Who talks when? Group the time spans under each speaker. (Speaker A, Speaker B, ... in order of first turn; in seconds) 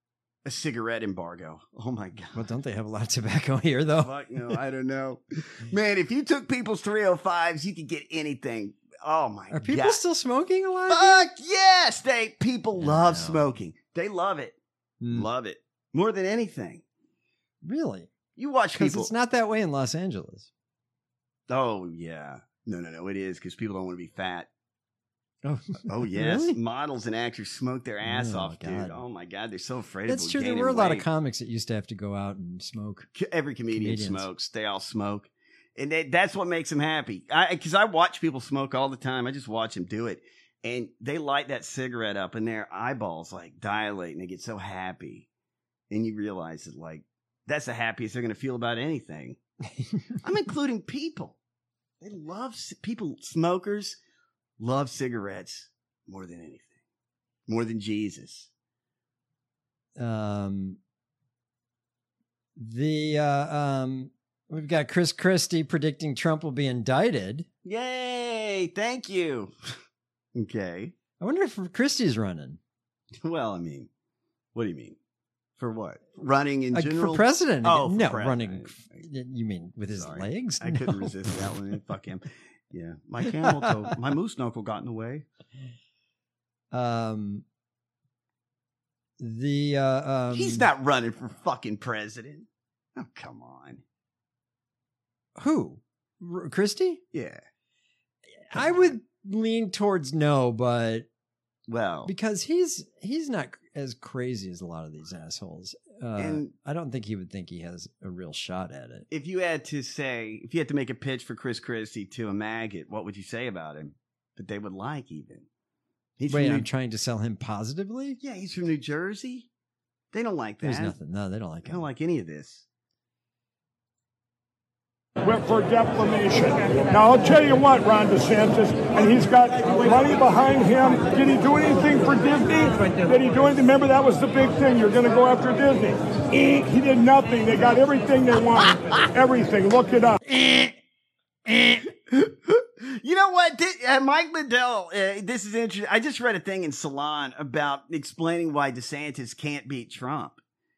Speaker A: 0.4-2.5, 4.0-10.0, 10.9-14.6, 15.1-16.8, 18.4-19.1, 21.5-24.5, 25.9-31.1, 33.1-45.3, 45.9-49.4, 50.2-51.4, 52.0-54.0, 54.6-56.8, 57.5-58.5, 67.6-69.5, 70.3-70.9, 73.2-73.9, 74.5-75.0, 75.6-79.0, 80.0-85.2, 90.3-93.8, 97.1-97.4, 98.5-98.9, 101.7-102.1, 106.2-106.5, 109.1-115.5, 116.2-116.7, 118.2-119.5, 120.1-121.0, 121.6-122.7, 142.1-150.4
Speaker B: 2.3-4.5, 9.5-11.3, 12.8-13.4, 15.0-15.3, 17.6-18.1, 18.7-20.5, 25.4-26.6, 28.0-29.0, 30.1-33.1, 33.7-34.3, 60.0-60.8, 62.6-67.5, 71.2-72.6, 76.7-81.1, 83.4-83.9, 86.7-87.4, 89.2-90.7, 95.3-97.0, 98.5-101.1, 102.0-109.0, 116.3-118.2, 120.6-121.8, 140.2-140.8, 141.4-141.8
Speaker C: 125.2-140.2